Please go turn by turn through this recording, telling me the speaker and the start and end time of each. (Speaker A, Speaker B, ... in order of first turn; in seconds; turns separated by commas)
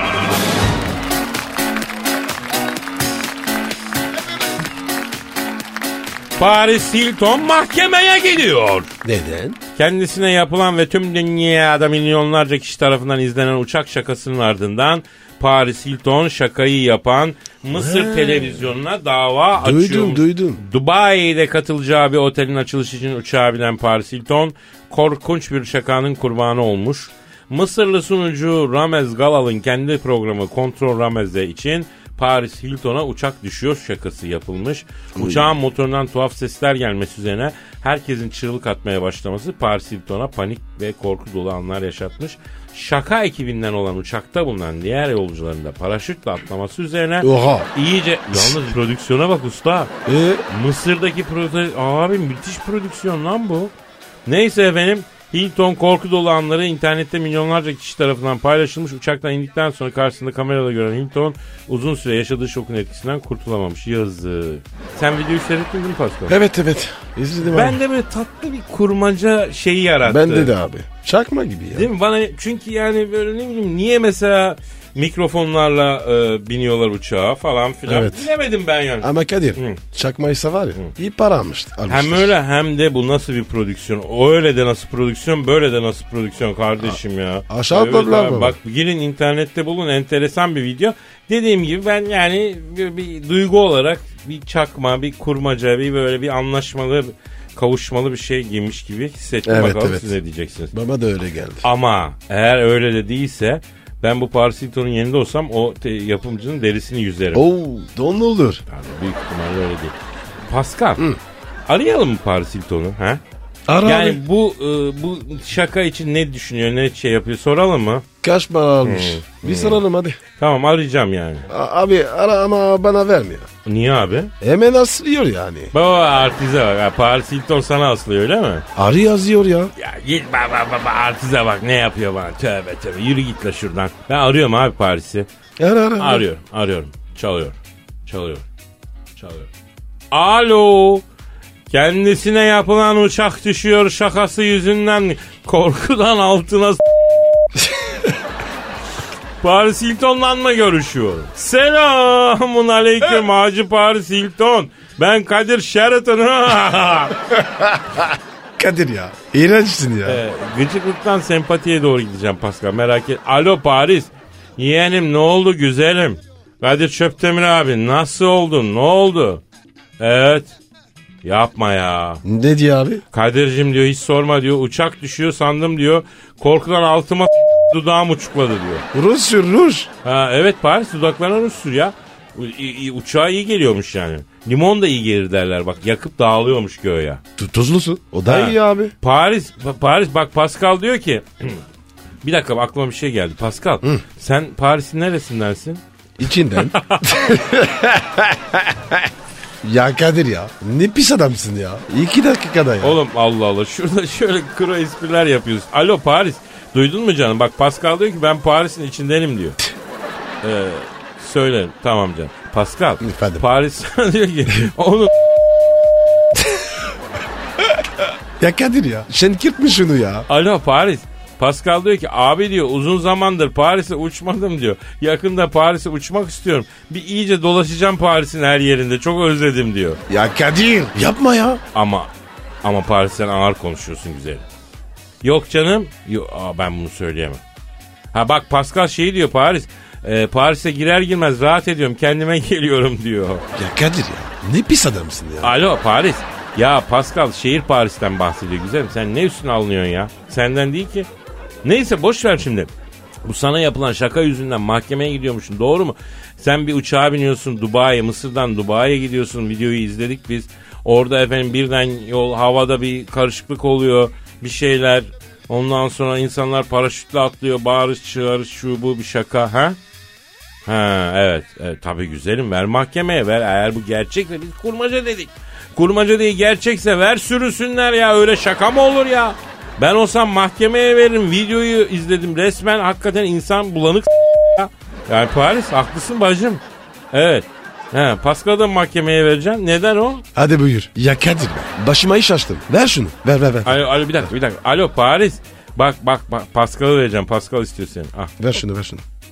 Speaker A: 6.4-8.9, Speaker B: 9.0-9.6, Speaker A: 9.8-49.9, Speaker B: 17.7-18.7, Speaker B: 19.6-20.6, Speaker B: 35.2-35.5, Speaker B: 47.2-47.7, Speaker B: 48.3-48.6, Speaker B: 50.1-50.4, Speaker A: 50.5-53.7, Speaker A: 54.3-66.4, Speaker B: 66.3-67.8, Speaker A: 67.4-70.5, Speaker B: 70.0-71.9, Speaker A: 71.7-79.8, Speaker B: 77.9-78.3, Speaker B: 79.0-82.3, Speaker A: 81.9-100.7, Speaker B: 87.5-88.6, Speaker B: 99.5-100.1, Speaker B: 100.7-101.7, Speaker A: 101.6-107.5, Speaker B: 107.3-108.6, Speaker A: 108.7-110.0, Speaker A: 110.5-111.0, Speaker A: 111.7-113.2, Speaker B: 113.7-114.2, Speaker A: 113.8-118.0, Speaker B: 118.2-120.2, Speaker A: 118.8-119.8, Speaker A: 120.4-121.5, Speaker B: 121.5-123.5, Speaker A: 123.7-124.3, Speaker B: 124.4-125.7, Speaker A: 125.7-128.7, Speaker B: 128.8-129.7, Speaker A: 129.8-135.3, Speaker B: 135.6-136.2, Speaker A: 136.0-137.6, Speaker A: 138.1-138.4, Speaker A: 139.2-139.5, Speaker A: 140.1-141.0, Speaker A: 141.7-146.8, Speaker A: 149.4-157.2, Speaker B: 157.3-160.2, Speaker A: 160.1-169.4, Speaker A: 170.0-170.6, Speaker A: 171.2-172.2, Speaker B: 172.2-173.0, Speaker A: 173.1-178.8, Speaker B: 178.9-179.9, Speaker A: 180.0-187.2, Speaker B: 187.4-188.9, Speaker A: 188.3-191.6, Speaker A: 192.2-195.8, Speaker B: 196.2-199.1, Speaker A: 196.6-197.2, Speaker B: 199.6-203.0, Speaker A: 202.8-209.6, Speaker A: 210.4-215.1, Speaker B: 213.0-213.4, Speaker B: 216.4-216.8, Speaker B: 218.4-220.3, Speaker A: 220.3-230.0, Speaker B: 230.1-231.6, Speaker A: 231.7-232.1, Speaker A: 232.6-234.4, Speaker A: 235.2-237.4, Speaker A: 238.1-243.4, Speaker B: 243.5-245.5, Speaker A: 245.4-251.1, Speaker A: 251.6-252.7, Speaker A: 253.2-269.8, Speaker A: 270.7-290.2, Speaker B: 290.4-294.3, Speaker A: 293.6-298.3, Speaker B: 298.4-299.0